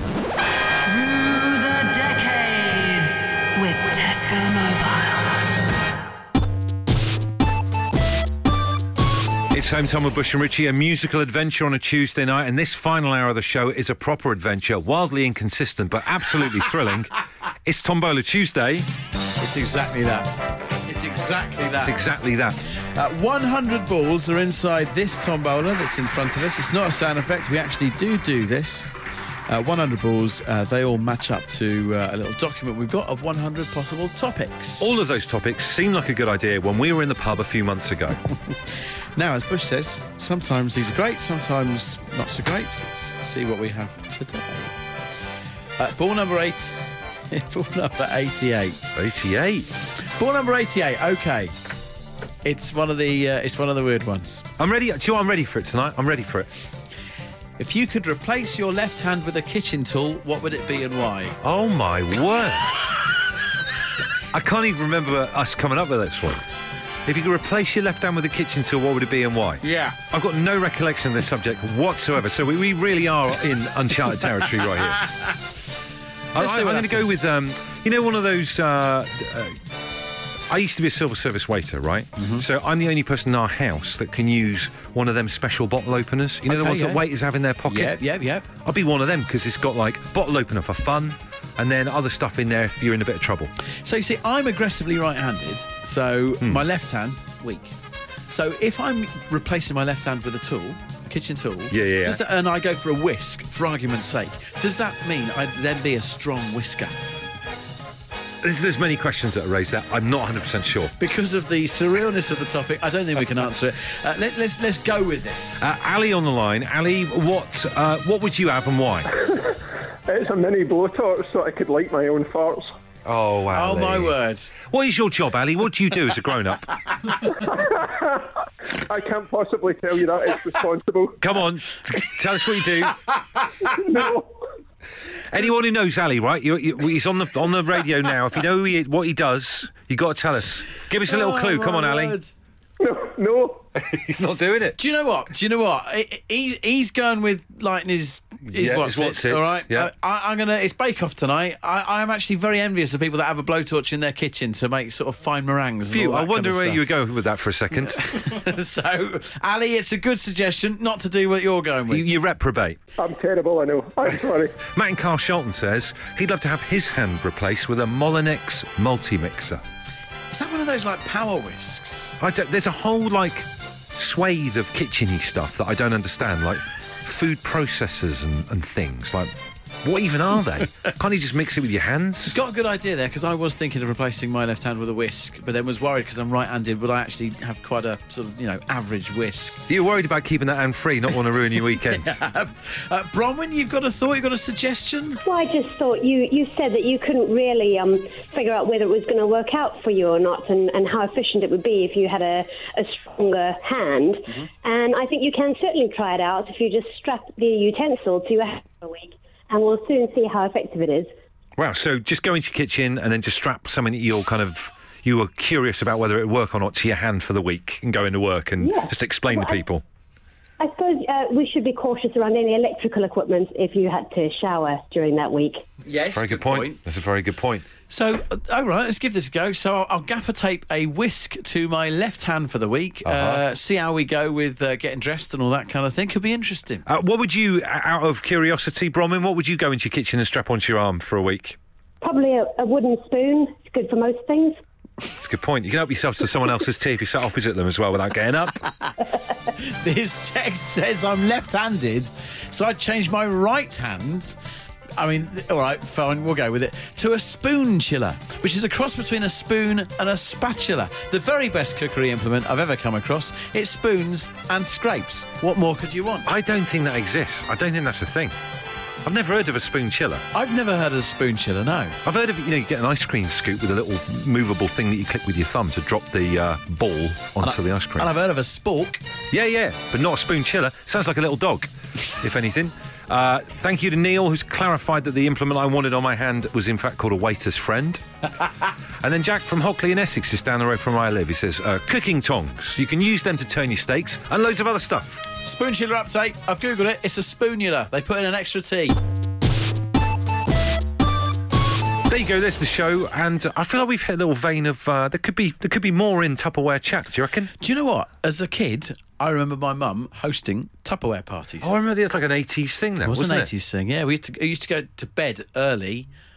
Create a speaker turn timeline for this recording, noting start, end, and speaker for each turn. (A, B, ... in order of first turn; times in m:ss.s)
0:00.9-0:05.2 A
0:09.5-0:17.1 B
0:17.6-0:18.9 B
0:19.4-0:20.3 C
0:20.8-0:22.0 C
0:21.8-0:22.6 B
0:22.9-0:28.9 C
0:29.5-0:35.0 C
0:34.8-0:38.2 B
0:39.2-0:44.8 C
0:45.8-0:46.8 C
0:47.3-0:48.9 C
0:48.9-0:49.7 B
0:49.9-0:51.5 C
0:52.4-0:54.4 C
0:54.6-0:56.5 B
0:57.6-1:01.4 C
1:01.4-1:03.0 B
1:04.3-1:06.4 B
1:07.0-1:15.1 B
1:09.6-1:10.0 C
1:16.3-1:19.6 B
1:16.3-1:17.2 C
1:20.5-1:28.0 B
1:22.2-1:22.4 C
1:26.5-1:27.0 C
1:27.6-1:28.5 C
1:28.6-1:33.5 B
1:33.8-1:37.8 C
1:38.3-1:47.0 C
1:41.7-1:42.2 B
1:48.4-1:50.9 B
1:51.0-1:55.7 C
1:55.6-1:59.1 B
1:59.1-2:02.7 D
2:03.0-2:04.1 B
2:03.5-2:04.5 C
2:04.7-2:06.7 B
2:07.3-2:11.2 D
2:11.2-2:13.0 B
2:13.4-2:13.6 C
2:13.6-2:14.3 D
2:15.3-2:22.2 B
2:21.0-2:22.3 C
2:22.8-2:23.6 D
2:23.7-2:24.8 B
2:24.8-2:36.8 C
2:28.4-2:29.9 B
2:35.9-2:38.1 B
2:37.9-2:42.1 C
2:41.9-2:42.8 B
2:43.0-2:44.6 D
2:44.6-2:49.6 B
2:50.3-2:52.1 C
2:52.2-3:02.4 B
3:02.2-3:09.6 C
3:09.7-3:12.2 B
3:11.8-3:15.2 C
3:15.2-3:31.1 E
3:31.6-3:39.8 B
3:38.6-3:39.6 E
3:40.6-3:45.7 E
3:45.8-3:46.8 C
3:46.0-3:47.7 B
3:47.9-3:56.8 C
3:53.0-3:53.4 B
3:56.8-4:01.6 B
4:02.0-4:04.6 E
4:05.1-4:08.6 B
4:09.5-4:14.3 C
4:15.0-4:26.4 C
4:26.2-4:28.4 B
4:29.0-4:30.2 B
4:30.3-4:32.0 C
4:32.0-4:38.1 B
4:37.4-4:39.0 C
4:39.3-4:48.0 B
4:49.0-4:55.2 B
4:55.4-4:59.0 C
5:02.1-5:07.5 B
5:07.6-5:11.7 C
5:11.6-5:13.5 B
5:13.0-5:16.1 C